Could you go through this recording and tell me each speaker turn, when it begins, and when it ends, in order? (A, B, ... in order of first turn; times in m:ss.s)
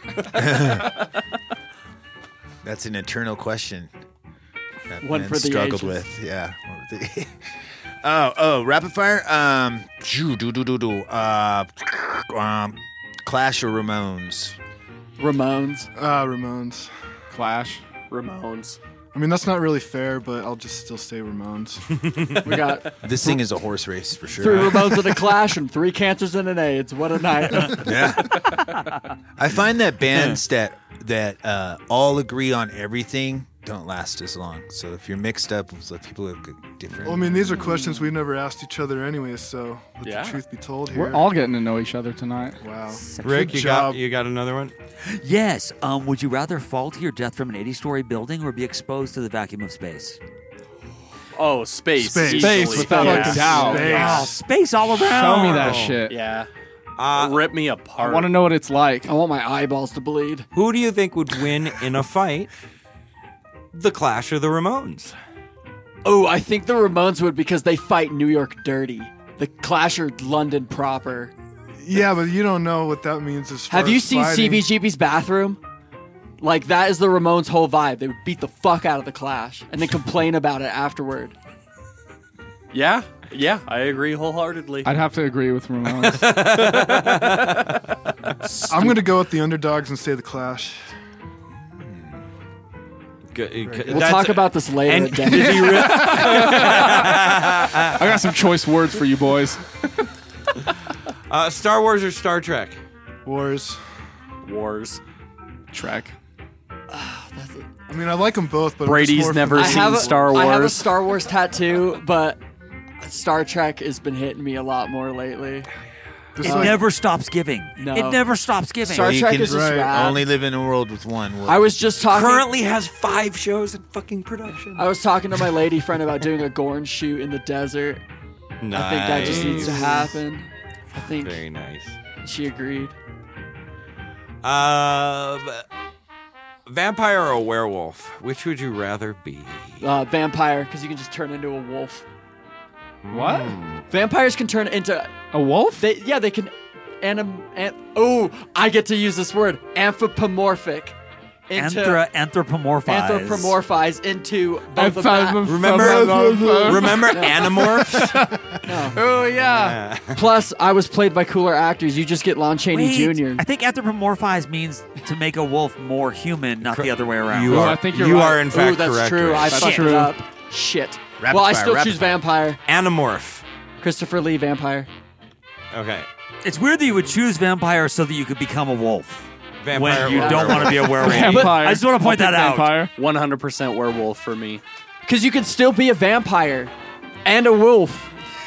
0:00.4-0:00.8 A
0:02.6-0:03.9 A
0:04.9-0:07.4 A
0:05.0-0:06.0 B
0:08.0-0:14.6 A
0:15.2-0:15.9 B
0:16.0-0:16.9 C
0:17.3-0:17.8 D
0:18.1-0:18.8 E
0:19.1-0:22.3 C
0:22.4-0:23.4 B
0:23.0-0:25.3 A
0:24.3-0:28.1 B
0:27.7-0:28.6 A
0:29.4-0:37.6 A
0:37.0-0:41.3 C
0:40.0-0:40.4 E
0:40.9-0:42.6 D
0:42.6-0:44.0 C
0:43.2-0:43.5 F
0:43.2-0:44.7 G
0:45.0-0:50.2 F
0:51.3-0:53.8 E
0:52.0-0:54.4 C
0:52.3-0:54.3 D
0:53.7-0:55.9 F
0:54.9-0:56.2 D
0:56.0-0:56.5 E
0:57.0-0:57.4 G
0:57.1-0:58.4 E
0:58.0-0:59.1 D
0:59.0-1:00.5 B
1:00.5-1:02.5 G
1:03.7-1:05.1 G
1:06.0-1:11.3 B
1:11.8-1:14.7 C
1:13.7-1:15.6 B
1:16.4-1:21.3 B
1:22.7-1:25.0 E
1:24.8-1:26.5 D
1:26.0-1:27.5 G
1:26.5-1:27.8 E
1:28.4-1:29.0 B
1:28.7-1:30.9 C
1:31.5-1:32.2 A
1:33.3-1:38.1 G
1:33.6-1:34.1 C
1:33.9-1:36.5 B
1:35.3-1:37.3 D
1:37.9-1:39.6 D
1:41.3-1:42.8 G
1:43.2-1:43.8 C
1:44.4-1:45.0 E
1:45.7-1:46.1 D
1:46.9-1:47.7 B
1:47.9-1:50.5 C
1:48.8-1:50.9 E
1:49.5-1:52.4 B
1:53.0-1:55.7 B
1:56.4-1:56.8 C
1:56.4-1:59.1 F
1:56.4-1:56.8 B
1:57.8-1:58.2 B
1:58.8-2:00.2 B
1:58.9-2:01.8 A
1:59.4-1:59.9 C
2:01.4-2:02.5 B
2:02.1-2:04.9 G
2:04.7-2:08.0 B
2:08.6-2:10.1 G
2:08.7-2:11.4 B
2:09.2-2:09.9 E
2:11.0-2:12.0 G
2:12.2-2:13.0 B
2:14.4-2:15.6 G
2:16.7-2:19.8 G
2:19.8-2:22.0 B
2:23.0-2:23.8 G
2:23.1-2:23.6 D
2:23.9-2:30.9 B
2:25.3-2:25.9 D
2:31.5-2:32.0 B
2:31.6-2:33.6 F
2:32.8-2:36.1 B
2:34.7-2:38.4 D
2:35.4-2:38.2 G
2:36.3-2:36.7 C
2:36.8-2:38.1 B
2:38.6-2:39.1 B
2:38.9-2:39.8 D
2:39.4-2:40.2 G
2:40.1-2:43.4 B
2:42.7-2:47.8 F
2:46.7-2:49.8 G
2:47.5-2:48.5 D
2:48.4-2:52.6 B
2:49.4-2:50.1 D
2:51.2-2:52.2 A
2:52.7-2:53.4 G
2:53.8-2:54.9 B
2:55.7-2:56.1 G
2:56.4-3:02.8 F
2:59.6-3:01.5 G
3:00.0-3:01.6 B
3:00.9-3:02.9 D
3:03.0-3:04.6 E
3:05.0-3:06.7 B
3:07.2-3:08.1 B